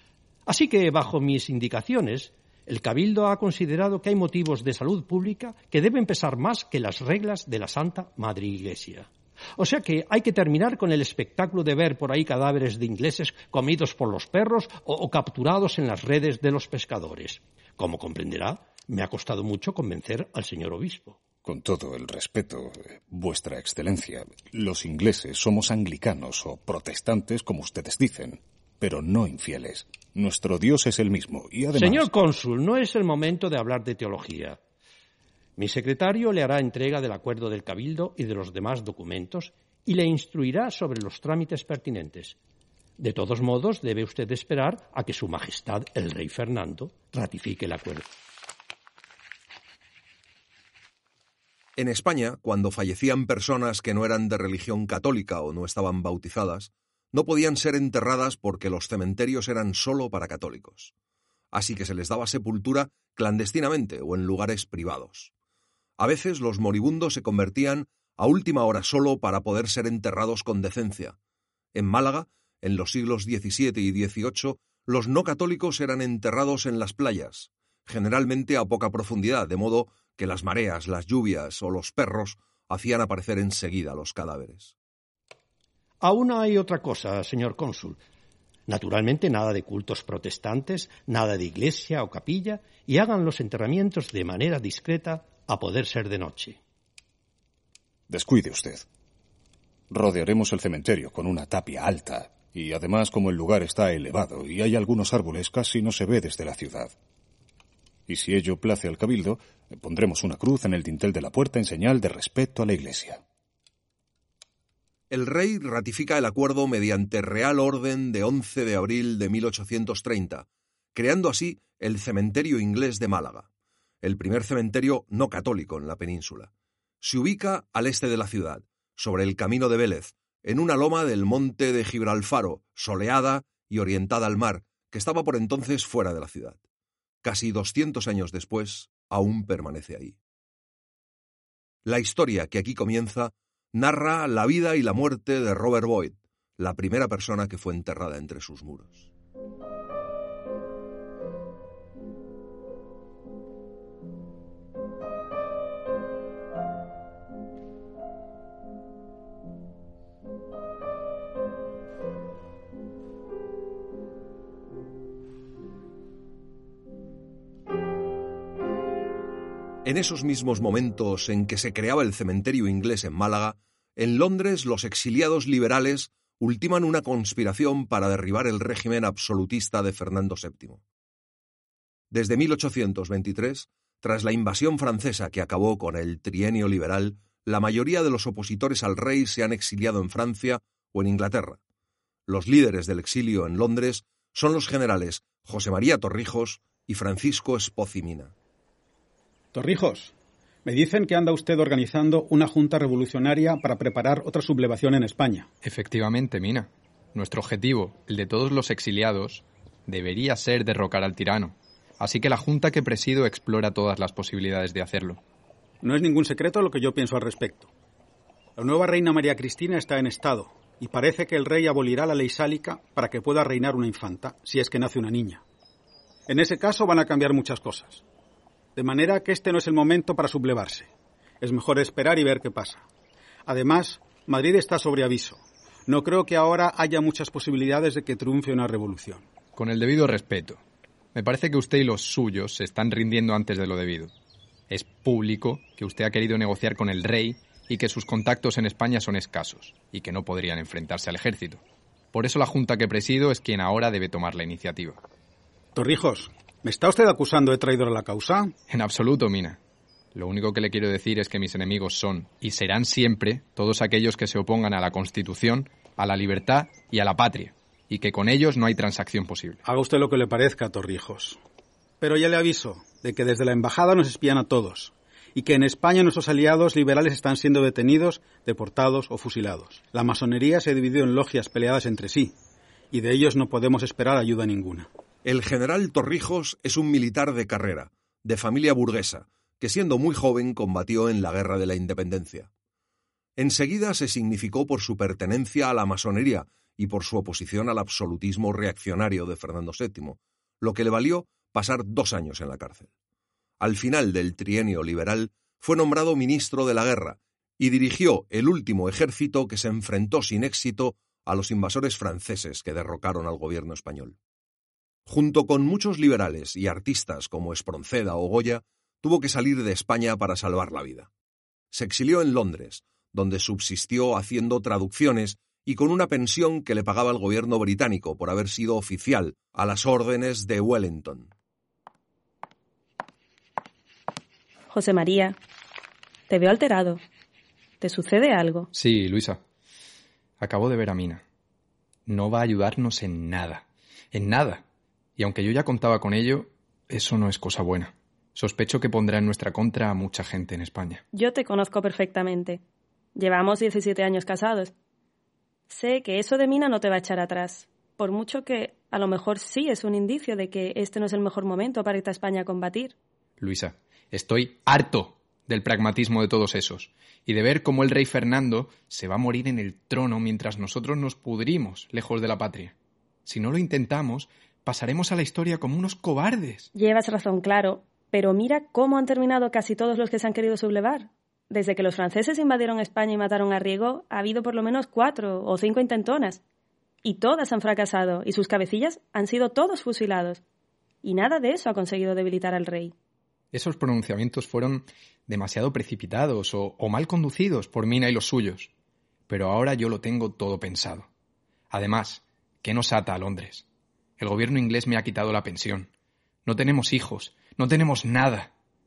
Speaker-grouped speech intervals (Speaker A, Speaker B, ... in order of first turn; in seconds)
Speaker A: 0.5-21.2, 31.8-34.6, 35.6-42.4, 43.0-48.1, 86.0-88.0, 88.7-96.6
Speaker B: 21.4-32.1, 98.1-98.9, 99.9-106.9, 108.1-113.2
Speaker C: 51.8-60.9, 61.5-65.3, 66.0-71.2, 71.7-84.7, 115.1-123.5, 124.0-126.5, 127.0-136.6, 137.2-140.2, 141.9-149.1, 169.8-180.8, 182.1-191.6, 192.3-198.3, 285.2-292.5, 293.4-302.9, 303.6-314.2, 315.1-321.1, 321.7-331.3
Speaker D: 199.5-200.1, 200.7-205.5, 215.8-217.7, 218.6-225.4, 226.3-228.0, 228.8-230.9, 231.4-232.8, 233.5-239.3, 255.8-258.5, 269.6-271.4, 272.0-282.4, 282.9-284.9
Speaker E: 205.6-215.2, 239.6-240.6, 241.2-244.1, 244.7-251.6, 252.1-255.0, 258.7-259.6, 260.1-269.6, 338.7-339.4, 340.4-341.2, 342.1-344.6, 345.2-351.0, 363.4-372.8, 373.3-376.7, 393.5-398.7, 399.3-401.1, 401.7-403.7, 404.2-405.9, 406.4-408.5
Speaker F: 334.7-335.4, 336.3-337.0, 337.8-338.7, 351.1-352.6, 353.2-354.7, 355.7-362.9, 376.8-386.4, 387.0-390.4, 391.0-392.9